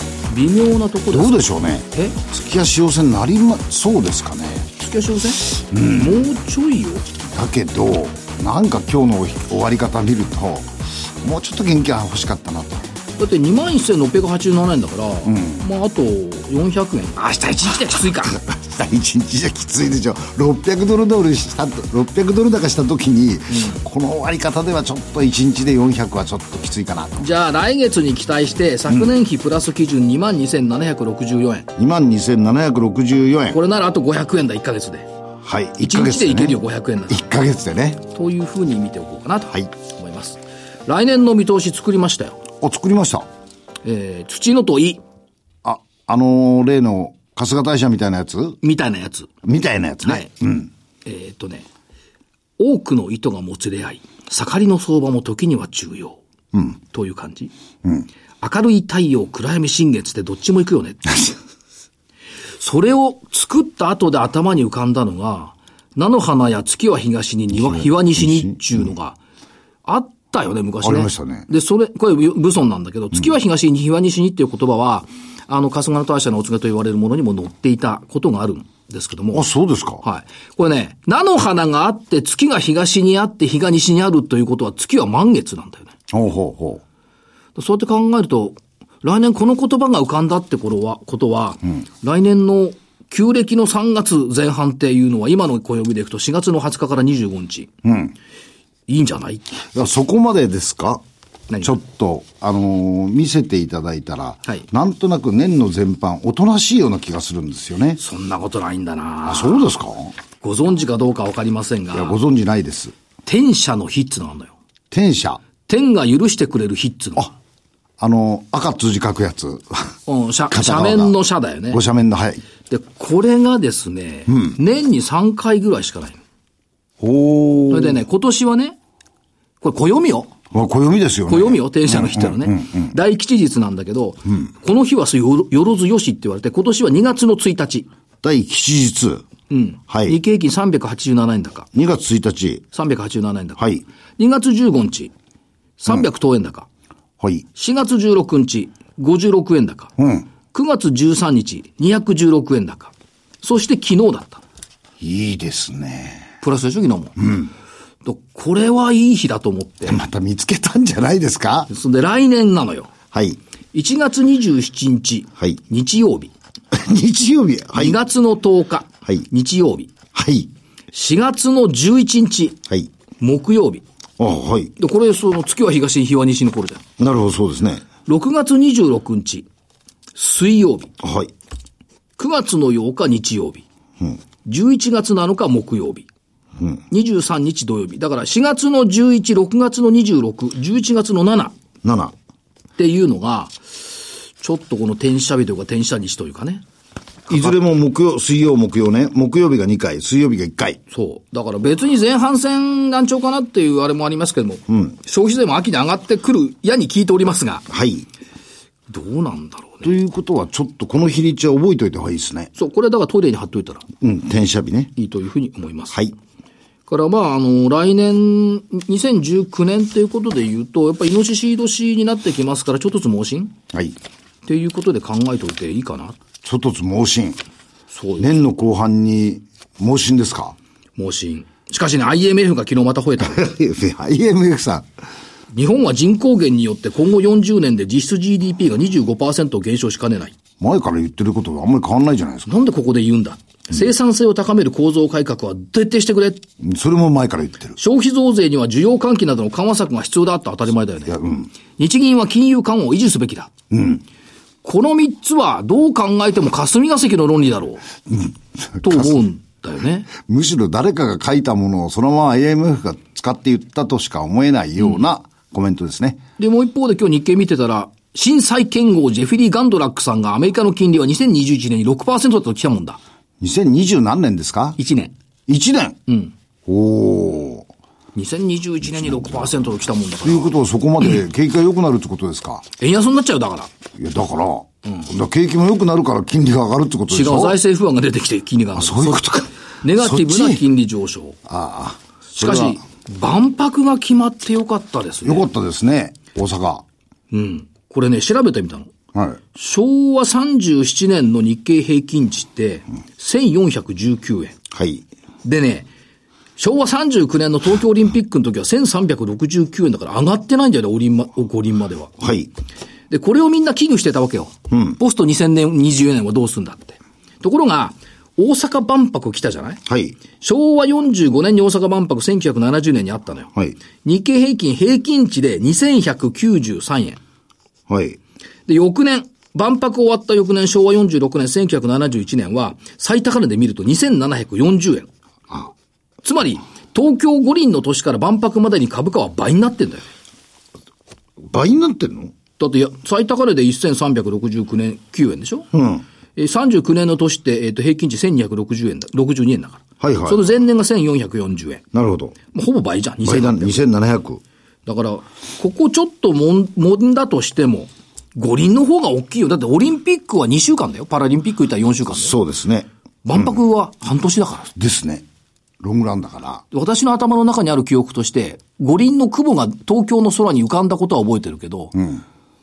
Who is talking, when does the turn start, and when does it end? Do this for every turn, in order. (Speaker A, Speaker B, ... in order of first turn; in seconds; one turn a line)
Speaker A: 0.3-2.2
Speaker B: 1.1-4.7
Speaker A: 4.7-7.1
Speaker B: 5.5-6.2
Speaker B: 7.2-12.9
Speaker A: 13.2-18.4
Speaker B: 15.2-15.6
Speaker B: 17.7-27.3
Speaker A: 23.5-23.8
Speaker A: 27.2-31.7
Speaker B: 31.8-33.6
Speaker A: 33.5-35.1
Speaker B: 35.4-38.0
Speaker A: 35.8-37.2
Speaker A: 38.1-42.4
Speaker B: 42.6-43.3
Speaker A: 43.8-45.0
Speaker B: 45.6-48.6
Speaker A: 48.6-49.3
Speaker B: 49.4-50.7
Speaker A: 50.0-50.3
Speaker A: 51.0-51.6
Speaker A: 52.6-56.2
Speaker A: 56.8-57.5
Speaker A: 58.4-61.3
Speaker A: 62.6-69.2
Speaker B: 67.5-68.9
Speaker A: 69.8-79.5
Speaker B: 70.8-71.5
Speaker B: 79.3-80.0
Speaker A: 80.0-85.9
Speaker B: 86.1-86.8
Speaker A: 87.5-97.7
Speaker B: 97.8-98.1
Speaker A: 98.9-99.6
Speaker B: 99.7-101.0
Speaker A: 101.5-101.7
Speaker B: 101.6-108.0
Speaker A: 108.0-109.7
Speaker B: 109.3-110.1
Speaker A: 110.4-112.2
Speaker B: 111.9-112.9
Speaker A: 113.2-114.5
Speaker B: 114.9-115.4
Speaker A: 115.6-117.3
Speaker B: 118.0-119.9
Speaker A: 120.1-121.8
Speaker B: 120.5-121.2
Speaker B: 121.7-122.4
Speaker A: 122.7-126.2
Speaker B: 124.3-124.6
Speaker B: 127.0-128.0
Speaker A: 127.7-128.8
Speaker A: 129.6-130.3
Speaker B: 130.5-132.9
Speaker A: 131.3-137.9
Speaker B: 138.2-139.2
Speaker A: 139.5-141.7
Speaker B: 139.9-140.2
Speaker B: 141.7-142.7
Speaker A: 142.7-143.6
Speaker B: 143.6-143.8
Speaker A: 144.2-145.1
Speaker A: 145.8-146.7
Speaker B: 147.2-147.4
Speaker A: 147.5-149.9
Speaker B: 150.0-150.3
Speaker A: 150.5-154.4
Speaker B: 155.0-156.3
Speaker A: 156.4-157.3
Speaker B: 157.2-157.5
Speaker A: 158.0-160.0
Speaker B: 159.8-161.7
Speaker A: 161.7-162.9
Speaker B: 163.1-163.4
Speaker A: 163.7-166.3
Speaker B: 166.7-168.0
Speaker A: 167.8-169.9
Speaker B: 170.1-170.5
Speaker A: 170.9-172.6
Speaker A: 173.2-173.8
Speaker B: 174.2-174.7
Speaker A: 174.8-176.8
Speaker B: 177.0-177.8
Speaker A: 178.0-179.4
Speaker A: 180.2-180.9
Speaker B: 181.0-181.3
Speaker A: 182.2-183.6
Speaker A: 184.4-186.1
Speaker A: 186.9-191.5
Speaker B: 191.8-192.1
Speaker A: 192.8-193.6
Speaker A: 194.4-196.6
Speaker A: 197.3-197.6
Speaker B: 197.3-200.8
Speaker A: 200.9-207.7
Speaker B: 207.7-208.1
Speaker A: 208.9-209.9
Speaker B: 209.8-212.5
Speaker A: 212.6-213.8
Speaker B: 214.0-214.9
Speaker A: 214.9-216.0
Speaker A: 216.9-223.5
Speaker B: 223.7-224.0
Speaker A: 224.4-226.2
Speaker B: 226.4-227.4
Speaker A: 227.9-228.3
Speaker B: 228.2-230.6
Speaker A: 231.0-233.5
Speaker B: 233.2-234.9
Speaker A: 235.5-240.3
Speaker B: 240.6-242.5
Speaker A: 242.4-246.4
Speaker B: 246.6-247.8
Speaker A: 247.8-251.2
Speaker B: 251.1-251.5
Speaker A: 251.8-253.5
Speaker B: 253.7-254.0
Speaker A: 254.6-257.8
Speaker B: 258.1-259.2
Speaker A: 258.8-260.1
Speaker B: 260.1-266.2
Speaker A: 266.4-273.0
Speaker B: 273.4-274.8
Speaker A: 274.8-275.1
Speaker B: 275.5-276.0
Speaker A: 276.1-276.3
Speaker B: 276.6-277.7
Speaker A: 278.1-280.6
Speaker B: 278.8-279.6
Speaker B: 280.2-282.6
Speaker A: 282.8-283.7
Speaker B: 284.0-287.6
Speaker A: 287.1-291.4
Speaker B: 288.7-290.6
Speaker B: 291.5-292.8
Speaker A: 292.3-295.5
Speaker B: 295.2-296.8
Speaker A: 297.3-298.9
Speaker B: 299.1-299.4
Speaker A: 299.5-304.6
Speaker B: 304.7-305.0
Speaker A: 305.4-305.9
Speaker A: 306.6-312.2
Speaker B: 312.2-312.5
Speaker A: 313.1-319.8
Speaker B: 314.7-315.0
Speaker B: 319.9-320.1
Speaker A: 320.4-323.5
Speaker A: 324.0-327.2
Speaker B: 327.9-328.2
Speaker A: 328.7-335.1
Speaker A: 336.2-340.1
Speaker B: 341.5-342.3
Speaker A: 342.6-345.7
Speaker B: 345.7-346.0
Speaker A: 346.4-351.8
Speaker B: 350.0-350.4
Speaker B: 351.9-352.4
Speaker A: 352.5-353.8
Speaker B: 353.2-354.4
Speaker A: 354.9-362.4
Speaker B: 362.1-363.6
Speaker A: 363.2-364.7
Speaker B: 364.7-365.2
Speaker B: 365.8-366.6
Speaker A: 366.7-371.9
Speaker B: 371.9-372.2